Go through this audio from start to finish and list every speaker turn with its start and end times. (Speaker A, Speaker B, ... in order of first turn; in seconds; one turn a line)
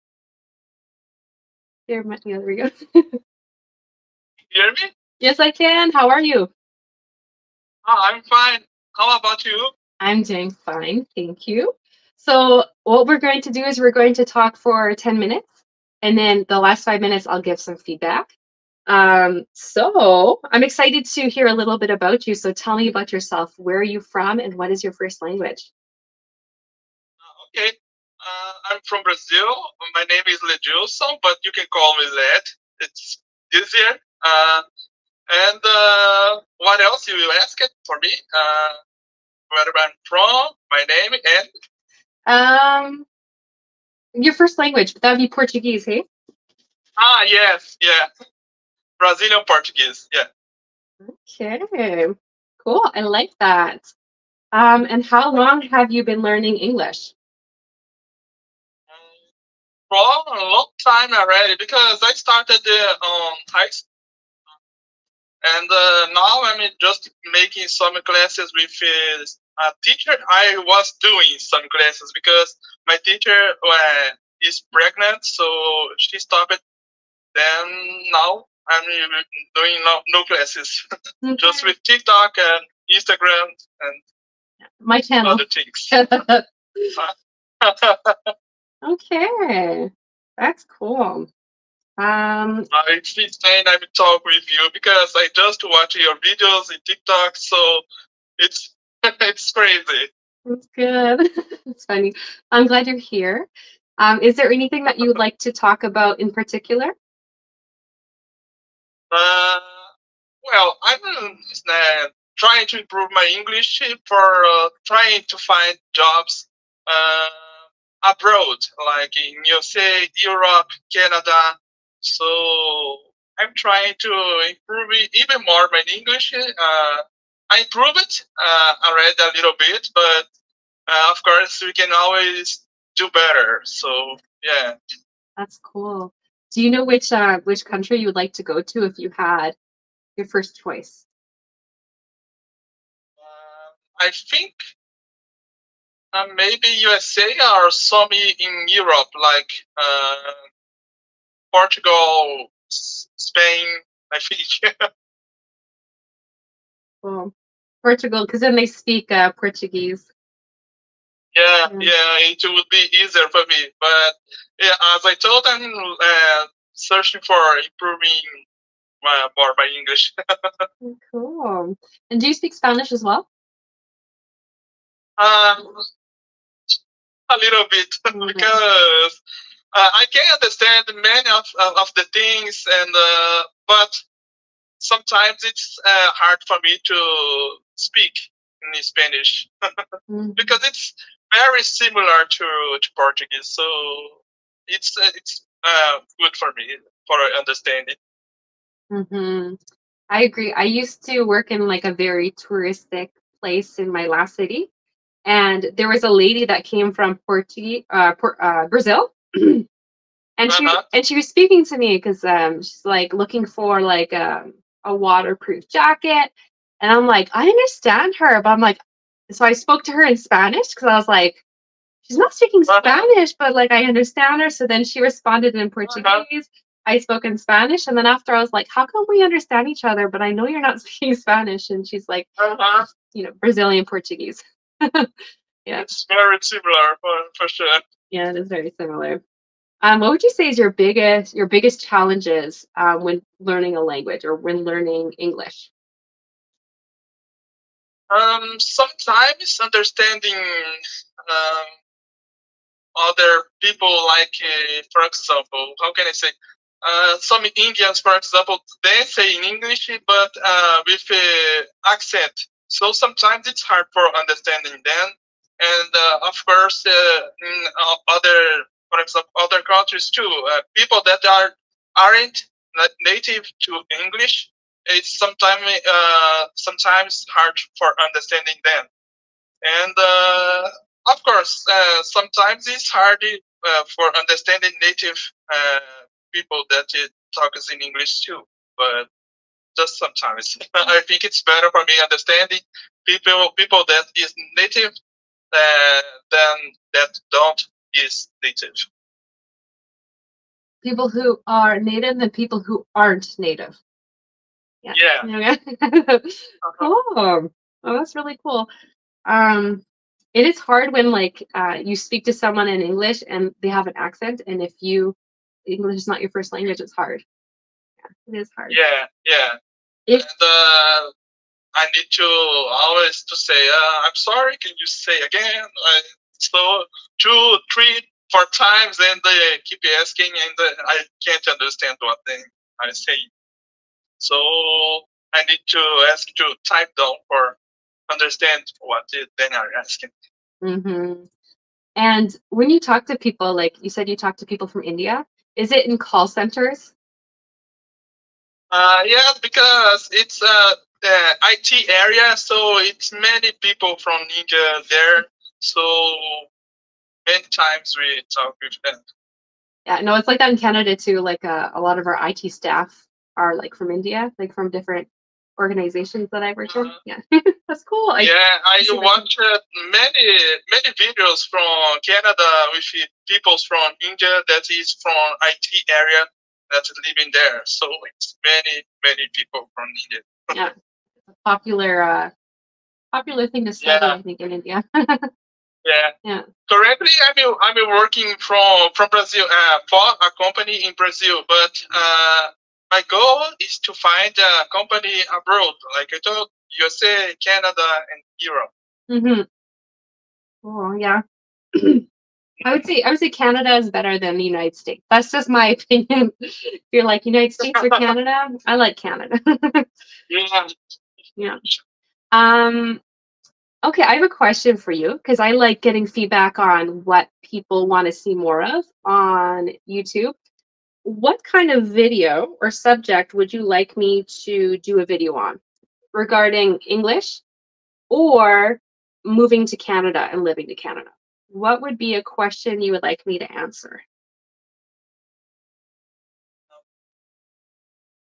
Speaker A: 1.9-3.2
Speaker B: 4.5-4.9
Speaker A: 5.2-6.5
Speaker B: 7.9-9.7
Speaker A: 10.0-15.5
Speaker A: 16.0-18.3
Speaker A: 18.9-25.7
Speaker B: 27.2-34.6
Speaker B: 35.3-38.8
Speaker B: 39.5-41.5
Speaker A: 42.3-43.1
Speaker A: 44.1-46.1
Speaker B: 47.0-48.1
Speaker B: 49.0-50.3
Speaker A: 51.0-53.9
Speaker A: 54.5-57.1
Speaker B: 58.9-59.2
Speaker B: 59.9-63.9
Speaker B: 65.4-76.6
Speaker B: 77.3-80.8
Speaker A: 81.2-81.7
Speaker B: 81.4-84.0
Speaker A: 84.8-86.9
Speaker B: 85.2-86.0
Speaker B: 87.0-88.3
Speaker A: 88.8-91.3
Speaker A: 92.0-92.7
Speaker B: 92.7-97.8
Speaker B: 98.4-100.1
Speaker A: 100.5-103.5
Speaker A: 104.0-106.9
Speaker B: 109.1-109.9
Speaker B: 110.4-130.3
Speaker B: 130.9-134.8
Speaker A: 135.4-139.6
Speaker A: 140.2-141.1
Speaker B: 143.2-144.7
Speaker B: 146.1-150.4
Speaker B: 151.5-154.8
Speaker A: 157.0-160.1
Speaker B: 161.3-168.4
Speaker B: 169.0-170.7
Speaker A: 170.8-173.3
Speaker B: 175.2-175.8
Speaker B: 177.3-179.2
Speaker A: 178.1-178.6
Speaker B: 179.7-184.0
Speaker B: 184.8-198.0
Speaker A: 190.1-190.6
Speaker A: 198.9-199.6
Speaker A: 200.1-204.7
Speaker A: 205.2-209.7
Speaker A: 210.4-221.4
Speaker B: 210.5-210.8
Speaker A: 222.1-232.3
Speaker B: 222.7-223.1
Speaker B: 225.9-226.2
Speaker B: 232.4-232.9
Speaker A: 233.1-235.1
Speaker B: 235.8-237.8
Speaker A: 238.1-239.2
Speaker A: 239.8-245.7
Speaker B: 248.1-251.8
Speaker B: 252.9-278.9
Speaker B: 279.6-289.1
Speaker B: 289.8-294.9
Speaker B: 295.5-298.9
Speaker A: 300.8-303.8
Speaker A: 304.8-308.7
Speaker B: 304.9-305.3
Speaker B: 306.6-306.9
Speaker A: 309.3-317.2
Speaker A: 318.1-318.8
Speaker B: 318.7-319.6
Speaker B: 320.1-321.1
Speaker B: 321.8-333.3
Speaker B: 334.2-337.6
Speaker B: 338.1-340.1
Speaker A: 340.6-341.3
Speaker A: 342.0-346.9
Speaker B: 348.7-356.5
Speaker B: 357.3-359.0
Speaker A: 359.9-369.3
Speaker B: 366.7-367.0
Speaker B: 368.2-380.6
Speaker A: 381.3-382.3
Speaker A: 383.1-385.3
Speaker B: 383.8-384.2
Speaker B: 385.9-386.1
Speaker B: 386.7-398.7
Speaker A: 399.1-399.5
Speaker A: 400.6-401.2
Speaker A: 401.7-402.0
Speaker B: 402.6-402.9
Speaker A: 402.6-409.9
Speaker B: 407.6-408.0
Speaker B: 410.3-410.7
Speaker A: 412.3-413.0
Speaker A: 413.8-420.4
Speaker A: 421.0-425.6
Speaker A: 426.1-427.4
Speaker A: 428.1-434.0